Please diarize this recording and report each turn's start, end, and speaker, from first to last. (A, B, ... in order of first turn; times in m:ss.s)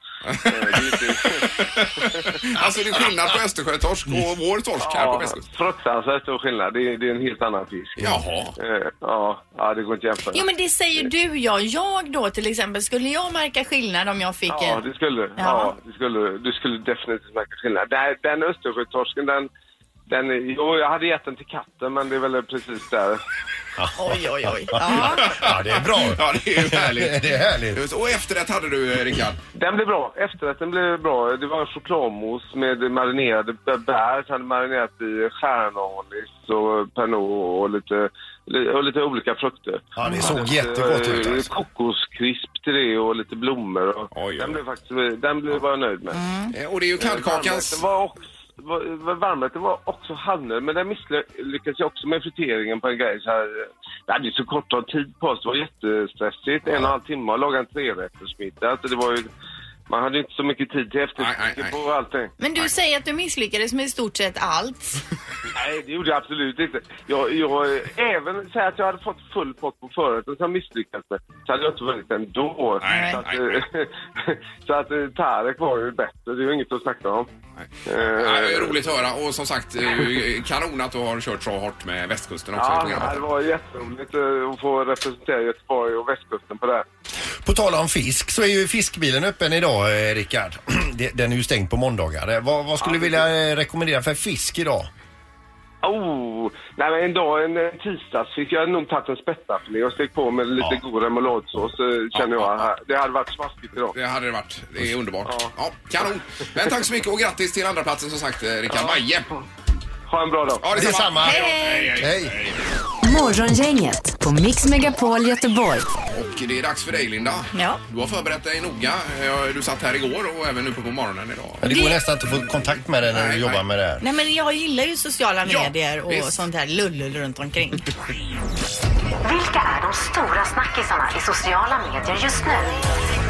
0:00.3-0:05.4 A
0:00.4-0:01.5 B
0:04.8-0:10.4 B
0:08.0-0:08.6 A
0:10.3-0:14.8 C
0:14.5-0:19.5 B
0:15.4-0:15.7 C
0:20.1-0:23.2 B
0:23.8-0:27.8 D
0:24.0-0:25.2 C
0:25.0-0:29.4 A
0:29.5-0:46.2 B
0:40.0-0:41.5 D
0:44.1-0:44.6 A
0:46.1-0:46.5 C
0:46.5-0:47.8 A
0:47.0-0:59.3 B
0:56.7-0:56.9 A
0:59.9-1:02.3 B
1:01.2-1:01.8 A
1:02.4-1:05.0 C
1:05.6-1:17.3 B
1:12.8-1:13.6 A
1:12.9-1:13.2 C
1:17.6-1:23.3 A
1:17.9-1:18.8 B
1:22.6-1:26.9 B
1:27.4-1:34.9 D
1:32.8-1:33.2 B
1:35.8-1:44.0 B
1:42.1-1:42.7 A
1:44.0-1:49.3 A
1:45.3-1:45.5 B
1:48.7-1:49.0 B
1:50.1-1:50.7 B
1:50.6-1:52.7 A
1:50.7-1:52.4 D
1:51.2-1:52.0 C
1:53.0-1:55.9 E
1:56.1-2:01.7 A
1:57.5-1:57.8 C
2:01.6-2:04.0 D
2:01.7-2:02.0 C
2:03.2-2:03.6 A
2:04.0-2:07.9 C
2:05.4-2:06.4 A
2:09.3-2:12.6 E